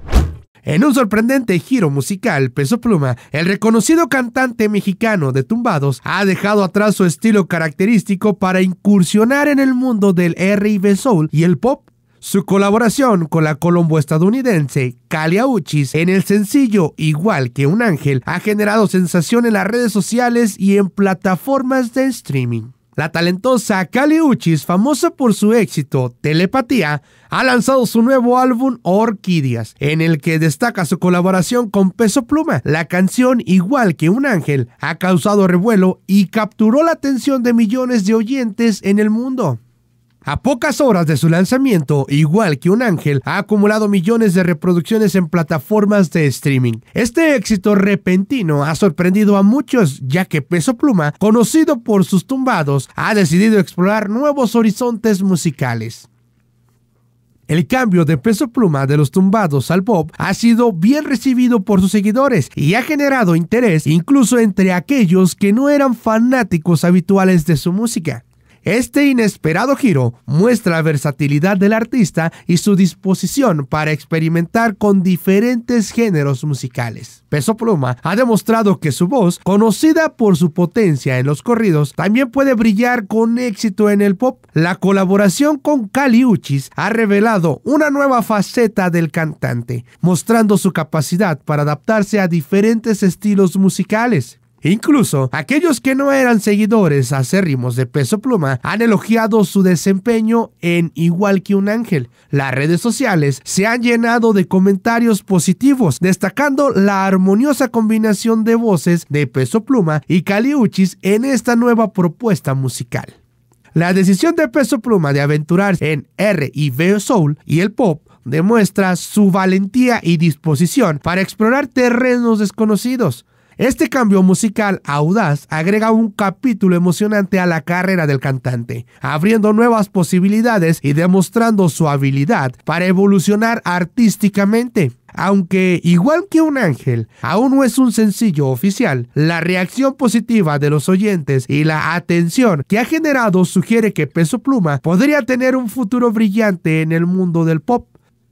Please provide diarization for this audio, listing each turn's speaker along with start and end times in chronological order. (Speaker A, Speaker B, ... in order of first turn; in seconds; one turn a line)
Speaker A: 0.6-39.6
Speaker A: 40.2-56.1
Speaker A: 57.5-113.1
Speaker A: 113.7-147.9